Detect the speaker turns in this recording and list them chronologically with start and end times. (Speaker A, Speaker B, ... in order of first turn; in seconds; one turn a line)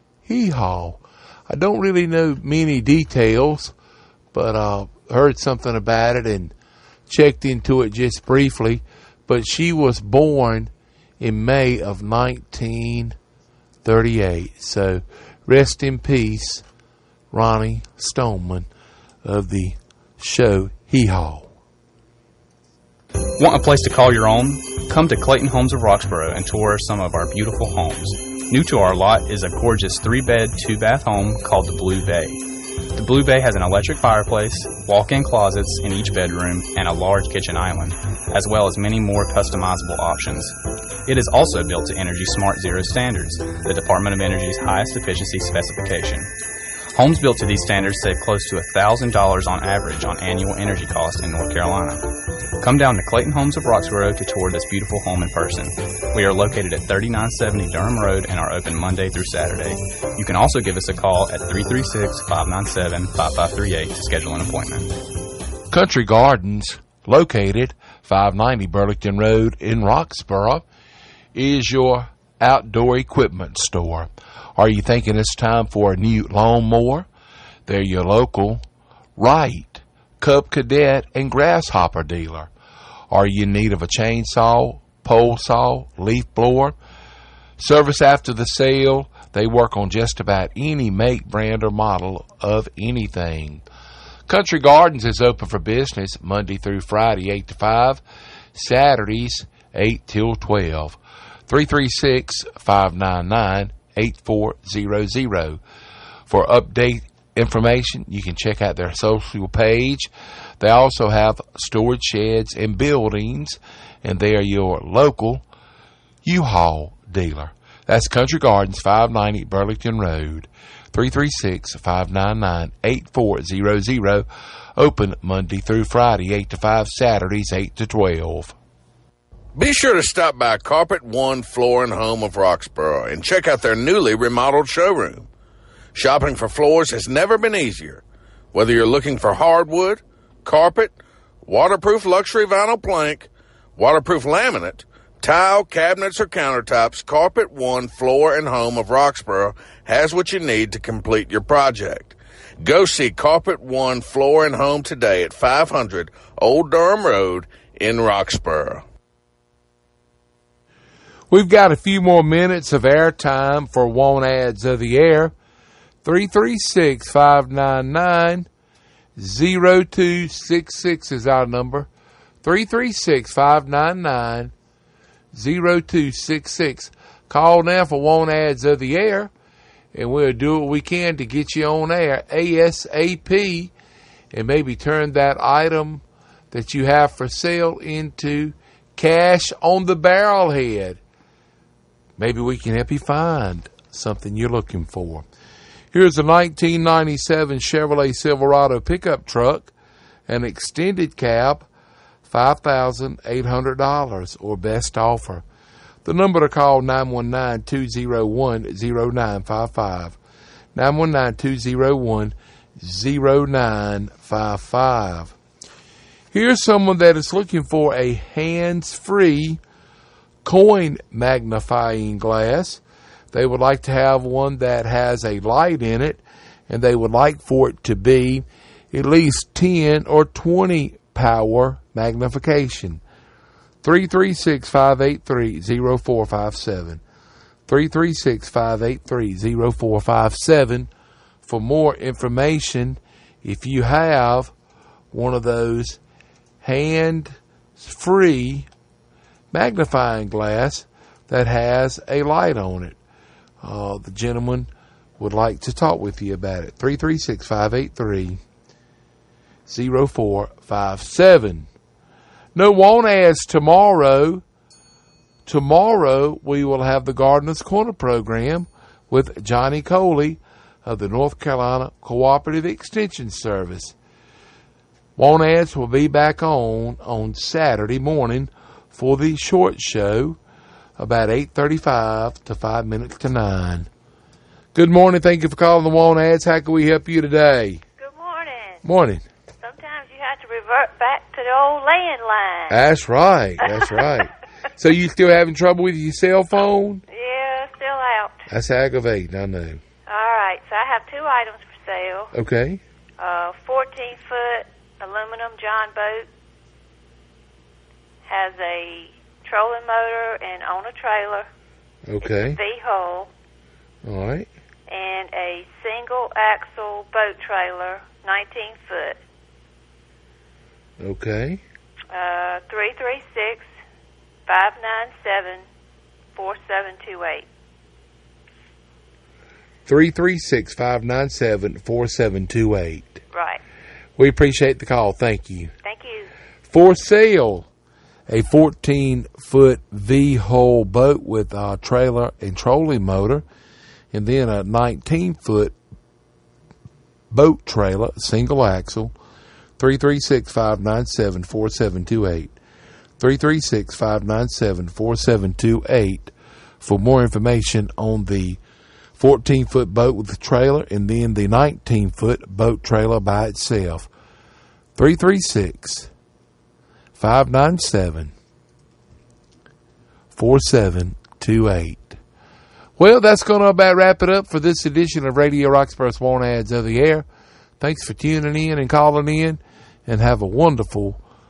Speaker A: 0.3-3.7
Speaker A: 4.3-6.5
Speaker A: 7.1-13.2
Speaker A: 13.8-16.6
Speaker A: 17.3-18.7
Speaker A: 19.2-21.5
Speaker B: 23.3-46.3
Speaker B: 46.9-65.0
Speaker A: 65.7-70.6
Speaker A: 71.3-77.1
Speaker A: 77.7-78.6
Speaker A: 79.2-82.5
Speaker A: 83.1-86.8
Speaker A: 87.6-93.6
Speaker A: 94.3-98.0
Speaker A: 98.5-105.6
Speaker A: 106.3-115.4
Speaker A: 116.2-128.6
Speaker C: 129.6-135.3
Speaker C: 135.9-158.8
Speaker A: 161.3-165.3
Speaker A: 166.0-168.5
Speaker A: 169.2-171.9
Speaker A: 172.4-174.5
Speaker A: 175.3-179.3
Speaker A: 179.9-183.7
Speaker A: 184.3-191.0
Speaker A: 192.2-195.2
Speaker A: 195.9-199.7
Speaker A: 200.3-201.7
Speaker A: 202.3-205.4
Speaker A: 206.1-210.2
Speaker A: 210.8-215.3
Speaker A: 216.3-219.6
Speaker A: 220.4-222.8
Speaker A: 223.3-233.0
Speaker A: 233.8-237.0
Speaker A: 237.7-240.9
Speaker A: 241.4-244.5
Speaker A: 245.1-246.0
Speaker A: 246.6-248.7
Speaker A: 249.5-253.0
Speaker A: 253.6-258.4
Speaker A: 259.7-261.7
Speaker A: 262.6-264.4
Speaker A: 265.5-273.9
Speaker A: 275.2-280.4
Speaker A: 281.0-283.9
Speaker A: 284.8-287.8
Speaker D: 288.0-288.8
Speaker A: 288.8-289.2
Speaker D: 289.6-292.8
Speaker A: 292.7-297.0
Speaker D: 293.6-294.2
Speaker D: 297.1-298.4
Speaker A: 298.5-299.8
Speaker D: 300.1-302.3
Speaker A: 302.3-302.8
Speaker D: 303.2-306.3
Speaker D: 308.3-311.5
Speaker A: 312.1-312.6
Speaker D: 312.3-313.3
Speaker A: 314.0-314.5
Speaker D: 314.9-319.2
Speaker A: 321.0-321.6
Speaker D: 322.1-323.7
Speaker D: 324.5-325.6
Speaker D: 326.4-327.5
Speaker A: 329.9-333.2
Speaker D: 333.3-333.6
Speaker A: 334.2-335.7
Speaker D: 335.8-336.3
Speaker A: 336.7-337.7
Speaker A: 338.3-343.4
Speaker A: 344.1-345.8
Speaker A: 347.3-349.1
Speaker A: 349.8-352.5
Speaker A: 353.2-358.6
Speaker A: 359.2-364.1
Speaker A: 365.0-366.1
Speaker A: 367.2-368.3
Speaker A: 370.3-372.2
Speaker A: 373.0-377.2
Speaker A: 377.8-381.2